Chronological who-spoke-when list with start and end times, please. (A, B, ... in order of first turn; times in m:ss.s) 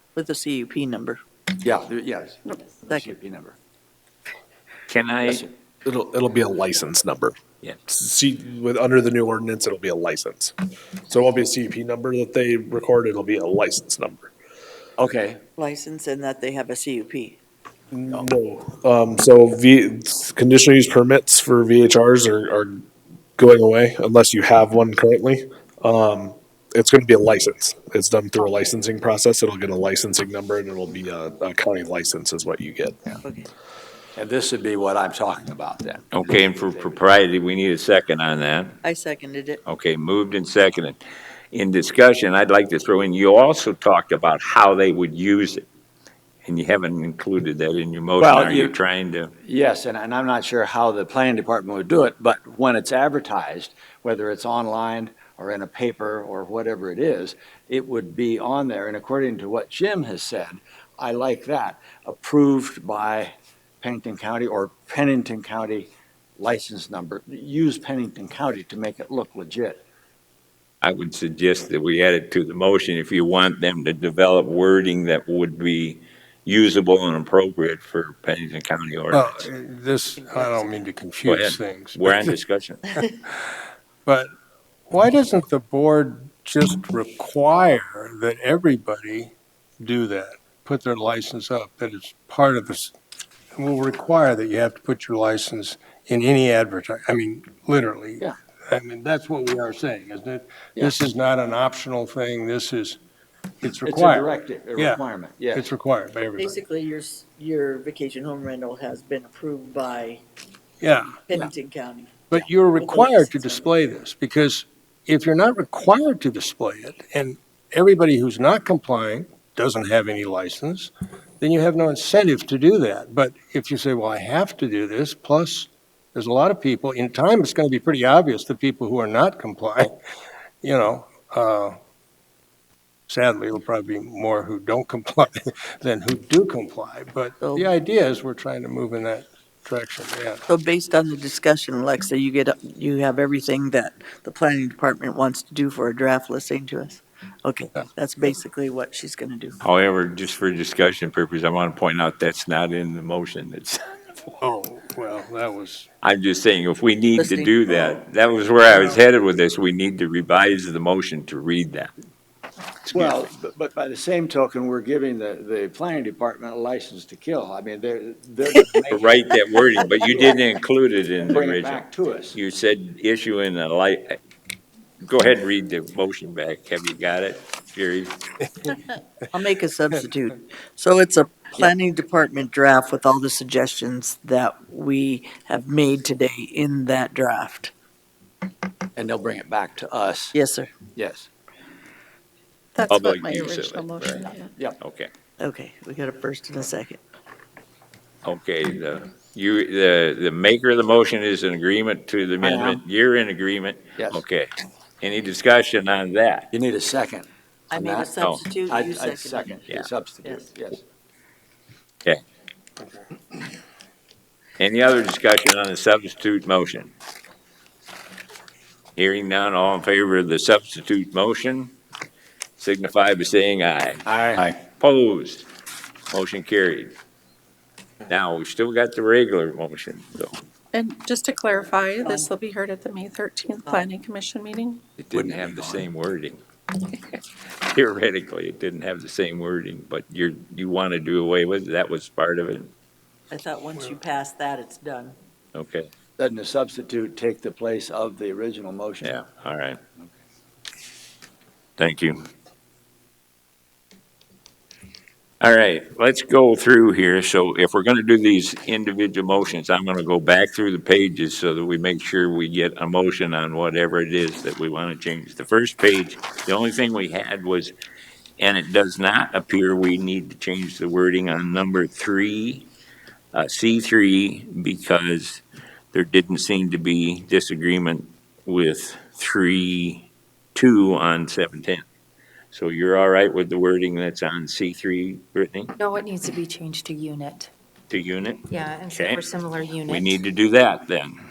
0:00.1-0:01.2 A
0:01.6-0:03.6 B
0:04.9-0:05.4 C
0:05.2-0:05.5 B
0:05.8-0:10.5 D
0:11.0-0:14.3 D
0:15.0-0:15.4 B
0:15.6-0:17.4 A
0:17.9-0:22.8 D
0:23.4-0:33.0 D
0:33.2-0:33.5 A
0:34.2-0:37.0 B
0:36.1-0:38.8 C
0:38.8-0:39.6 A
0:39.6-0:41.0 C
0:41.5-0:45.6 C
0:46.4-0:49.3 C
0:48.2-0:48.8 B
0:49.4-1:09.8 B
1:10.8-1:19.5 C
1:19.1-1:22.4 E
1:20.2-1:20.7 A
1:21.2-1:22.9 C
1:24.9-1:32.9 E
1:33.6-1:43.0 E
1:43.6-1:46.6 E
1:43.8-1:45.7 B
1:46.4-1:50.2 A
1:50.8-1:51.2 E
1:51.2-1:53.6 A
1:52.3-2:10.0 E
2:10.6-2:11.7 E
2:13.1-2:20.4 E
2:17.4-2:17.7 A
2:20.5-2:29.6 A
2:29.6-2:34.2 C
2:34.4-2:35.9 E
2:36.0-2:41.9 C
2:37.2-2:38.0 A
2:42.9-2:49.2 B
2:48.9-2:54.2 C
2:50.0-2:50.3 B
2:51.3-2:52.4 B
2:55.0-2:58.7 C
2:59.3-3:07.7 A
3:09.0-3:10.3 B
3:10.3-3:10.7 A
3:10.9-3:11.3 B
3:12.7-3:14.5 F
3:12.9-3:14.2 C
3:14.8-3:15.1 C
3:15.4-3:17.0 A
3:18.2-3:26.5 C
3:22.4-3:22.8 B
3:26.5-3:28.1 B
3:27.7-3:29.6 A
3:28.2-3:28.4 C
3:28.6-3:30.8 B
3:34.6-3:36.9 C
3:39.0-3:41.7 C
3:42.6-3:45.4 C
3:44.0-3:44.4 B
3:46.1-3:46.9 C
3:48.1-3:50.4 C
3:50.7-3:54.8 F
3:52.0-3:52.3 A
3:55.0-3:56.4 C
3:55.1-3:55.8 B
3:57.1-4:02.7 C
4:03.3-4:05.2 A
4:05.5-4:05.9 C
4:06.2-4:09.1 B
4:09.0-4:09.8 C
4:11.8-4:12.2 C
4:15.4-4:27.7 C
4:28.4-4:32.7 C
4:33.3-4:41.8 C
4:42.5-4:45.7 C
4:45.8-4:47.5 G
4:47.9-4:49.3 C
4:48.5-4:50.2 G
4:49.9-4:51.2 C